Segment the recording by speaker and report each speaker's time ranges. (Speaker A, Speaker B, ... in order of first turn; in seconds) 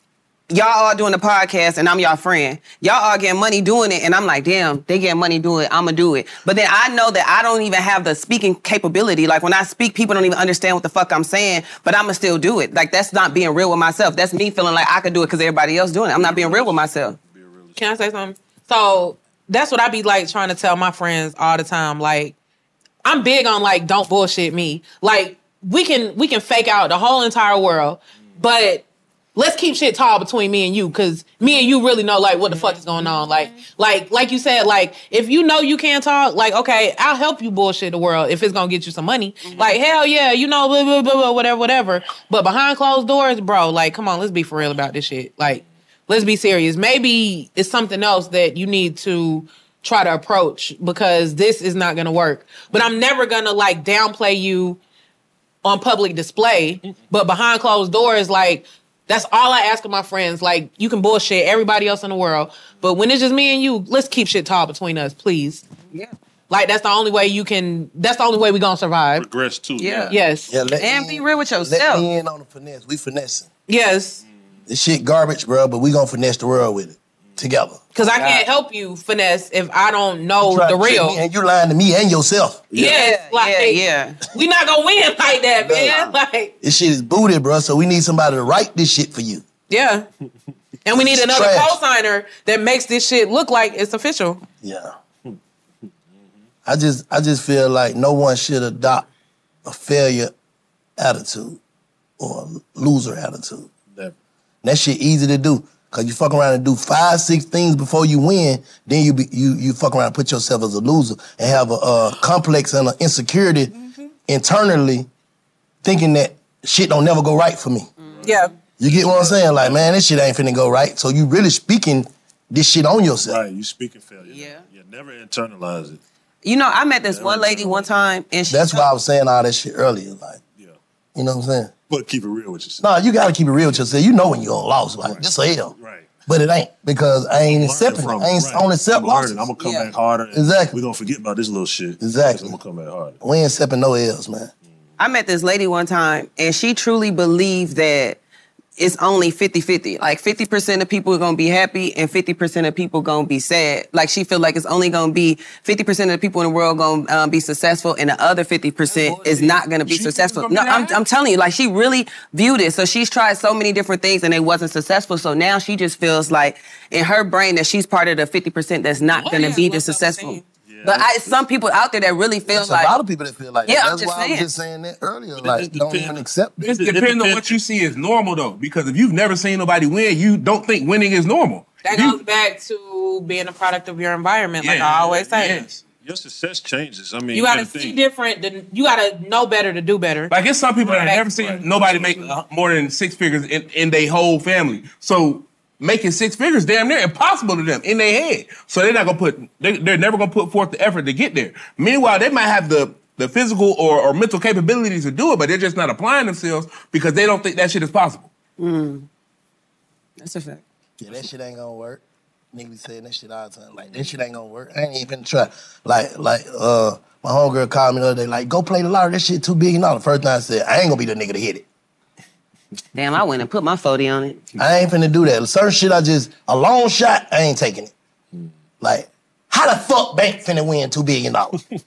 Speaker A: 0.5-17.2, 39.4-39.8, 69.8-70.2, 70.8-72.0, 78.0-78.5, 82.8-84.3, 85.9-86.1, 118.0-118.5, 124.2-124.6, 126.4-128.9, 139.6-139.9, 145.0-148.2, 148.8-172.9, 173.7-174.5, 208.6-209.1, 210.2-210.6, 222.9-224.4
Speaker B: 16.1-17.8, 69.2-70.2, 118.0-119.9, 123.2-126.0, 127.1-127.9, 131.9-132.8, 135.0-136.1, 137.4-143.2, 170.7-171.4, 175.4-177.6, 184.8-185.2, 185.8-188.0, 190.8-192.4
Speaker C: 17.8-22.4, 23.1-54.8, 55.6-65.7, 66.5-69.3, 70.1-70.5, 73.7-74.2, 78.0-81.2, 82.7-86.5, 89.7-90.1, 90.9-94.4, 118.2-118.5, 169.2-170.4, 181.8-185.7, 187.3-190.3, 190.9-191.3
Speaker D: 70.5-73.5, 74.7-77.9, 80.4-82.9, 85.6-86.0, 86.6-89.5, 90.9-91.8, 94.6-94.9, 96.7-99.1, 99.7-100.3, 101.0-101.6, 102.2-103.7, 104.6-113.7, 114.3-115.1, 115.8-117.9, 118.8-123.4, 128.5-130.4, 131.2-131.7, 132.8-135.8, 136.3-139.4, 140.3-140.8, 142.0-142.6, 143.2-144.5, 172.5-176.7, 211.0-212.0, 212.5-221.7, 224.6-227.9, 228.8-231.6
Speaker E: 158.9-161.0, 176.6-182.2, 184.6-185.8, 190.3-208.3